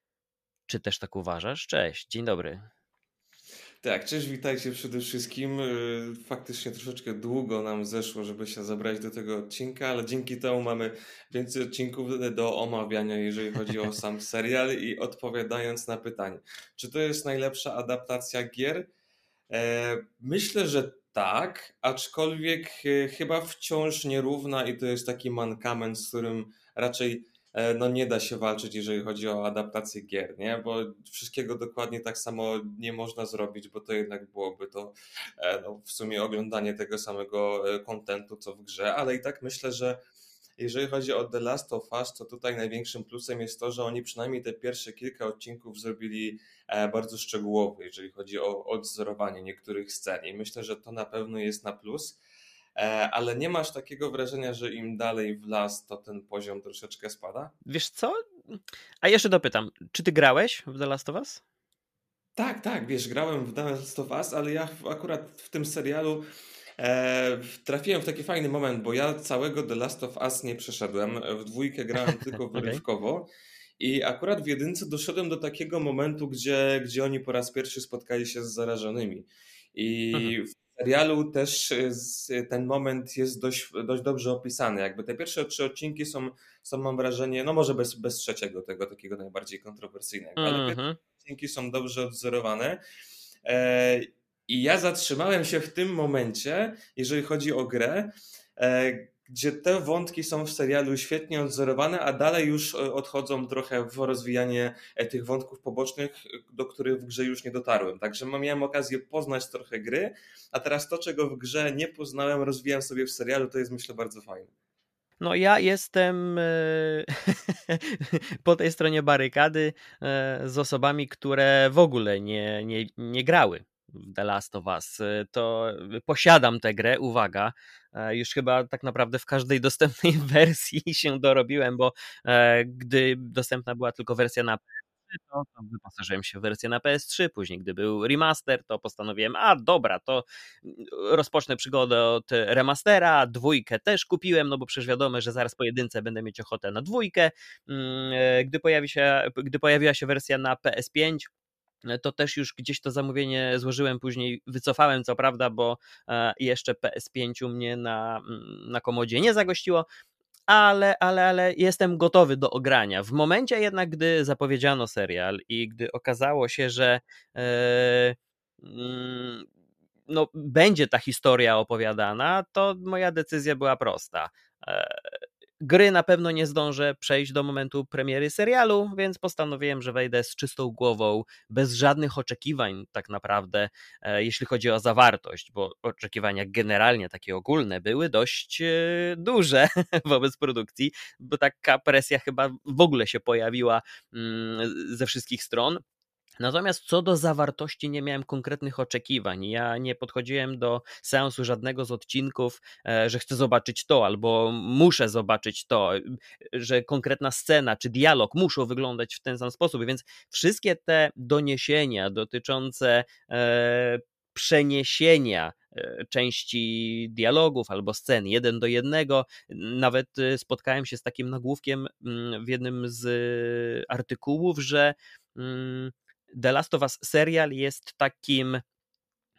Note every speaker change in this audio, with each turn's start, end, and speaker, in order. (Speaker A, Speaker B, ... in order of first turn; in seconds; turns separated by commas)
Speaker A: 0.7-2.6, Speaker B: 3.8-18.9, Speaker B: 19.5-40.0, Speaker B: 40.6-52.2, Speaker B: 52.8-57.5, Speaker A: 57.7-61.4, Speaker B: 62.4-66.2, Speaker B: 66.8-73.3, Speaker A: 72.5-72.8, Speaker B: 73.8-92.8, Speaker A: 90.4-91.0, Speaker B: 93.5-114.5, Speaker A: 115.2-151.3, Speaker A: 151.9-159.9, Speaker A: 160.5-169.5, Speaker A: 170.1-175.0, Speaker A: 175.6-195.8, Speaker A: 196.4-228.6